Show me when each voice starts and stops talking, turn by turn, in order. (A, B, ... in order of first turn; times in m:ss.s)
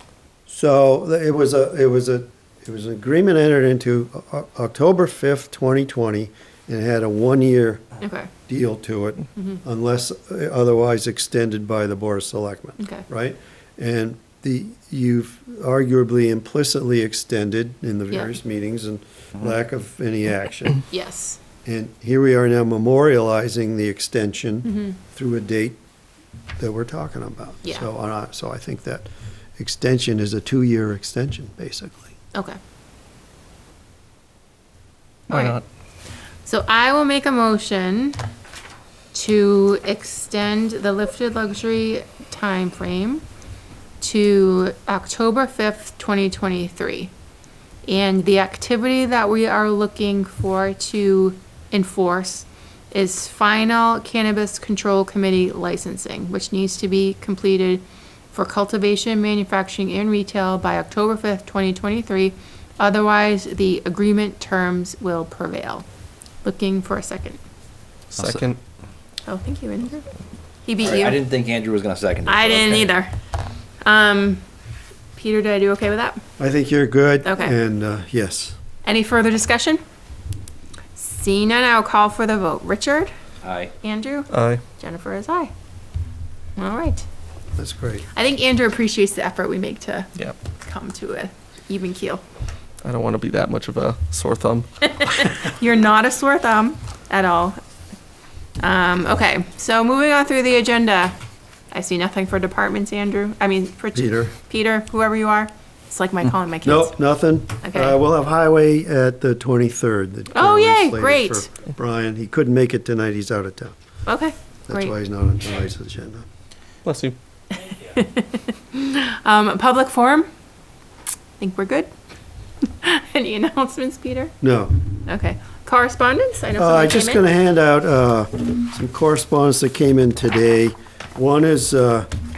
0:00.5-0:07.8 A
0:08.0-0:08.3 B
0:08.4-0:20.8 A
0:12.8-0:13.0 B
0:20.9-0:21.4 B
0:21.6-0:25.8 A
0:24.6-0:24.9 B
0:26.6-0:32.1 A
0:35.3-0:35.6 B
0:36.4-0:38.2 B
0:39.1-0:43.2 B
0:44.0-0:47.1 B
0:47.8-1:05.8 B
1:06.4-1:07.4 B
1:08.1-1:08.6 C
1:09.3-1:10.1 B
1:10.6-1:11.2 B
1:10.8-1:12.9 D
1:12.3-1:13.1 B
1:13.8-1:14.4 B
1:15.2-1:16.2 B
1:16.4-1:18.6 A
1:17.2-1:17.5 B
1:18.8-1:19.8 B
1:20.9-1:23.1 B
1:23.4-1:23.7 D
1:23.8-1:25.5 B
1:24.3-1:24.6 C
1:26.6-1:27.0 B
1:27.6-1:28.0 A
1:28.1-1:32.2 B
1:32.8-1:34.9 C
1:35.1-1:37.6 B
1:38.6-1:41.2 B
1:41.7-1:47.0 B
1:43.9-1:44.3 A
1:46.6-1:53.7 A
1:47.6-1:48.0 B
1:50.3-1:51.5 B
1:54.0-1:54.9 B
1:54.7-1:56.2 A
1:56.8-1:57.2 C
1:57.5-2:00.3 B
2:01.4-2:01.9 B
2:02.6-2:04.4 B
2:04.4-2:04.7 A
2:05.0-2:07.2 B
2:06.6-2:12.1 A